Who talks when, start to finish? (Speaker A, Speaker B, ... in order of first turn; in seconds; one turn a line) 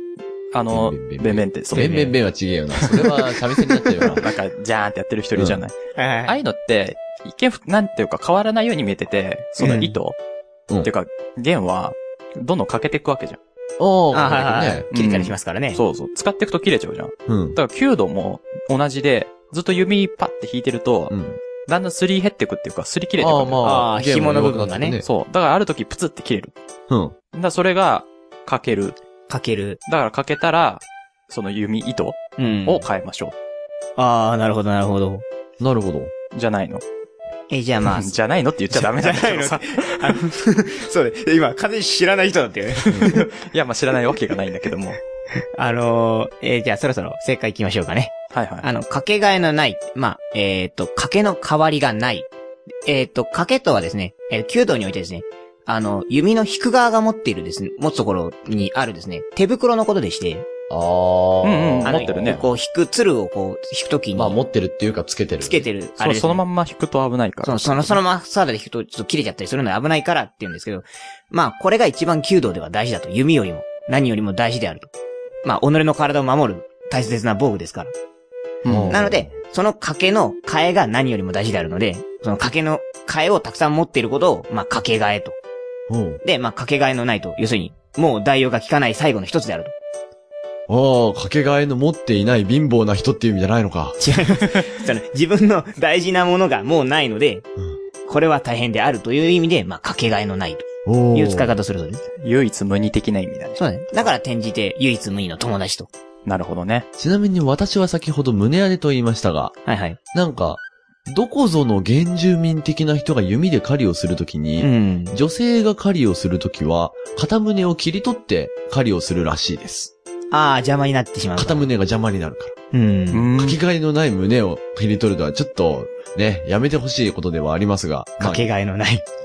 Speaker A: 0.5-2.2
Speaker B: 0.7-4.2
Speaker A: 2.8-10.2
Speaker B: 5.3-5.6
Speaker C: 6.0-6.4
Speaker B: 9.6-9.9
Speaker A: 10.8-13.4
Speaker B: 13.8-14.9
Speaker C: 14.1-15.8
Speaker A: 14.9-21.1
Speaker B: 17.3-17.6
Speaker B: 21.1-21.4
Speaker A: 21.7-23.6
Speaker B: 23.2-25.1
Speaker C: 23.6-25.0
Speaker A: 25.0-26.5
Speaker B: 26.9-27.1
Speaker A: 27.3-29.0
Speaker C: 29.3-29.8
Speaker A: 29.9-33.4
Speaker C: 32.4-32.9
Speaker C: 34.0-35.2
Speaker B: 35.6-36.1
Speaker A: 36.3-36.8
Speaker C: 37.5-38.2
Speaker A: 37.9-40.2
Speaker C: 38.7-43.3
Speaker A: 42.9-45.0
Speaker B: 42.9-43.2
Speaker C: 45.6-52.3
Speaker A: 48.3-48.7
Speaker C: 52.9-60.5
Speaker B: 60.7-62.5
Speaker A: 61.4-62.4
Speaker C: 61.8-64.4
Speaker B: 64.1-65.7
Speaker C: 65.4-66.4
Speaker A: 66.0-68.0
Speaker C: 67.4-74.9
Speaker C: 75.4-77.9
Speaker A: 78.6-79.0
Speaker B: 78.7-79.3
Speaker C: 78.9-85.4
Speaker B: 85.9-86.2
Speaker C: 86.2-89.7
Speaker B: 90.7-94.0
Speaker C: 94.0-97.5
Speaker C: 98.1-102.0
Speaker B: 100.9-101.5
Speaker A: 102.2-104.1
Speaker C: 103.6-105.9
Speaker A: 106.3-106.9
Speaker B: 107.0-109.5
Speaker C: 109.7-110.0
Speaker B: 110.1-119.9
Speaker C: 114.6-115.2
Speaker C: 120.3-121.7
Speaker B: 121.4-122.5
Speaker C: 122.7-123.3
Speaker A: 123.1-123.6
Speaker B: 123.4-128.5
Speaker C: 128.2-129.0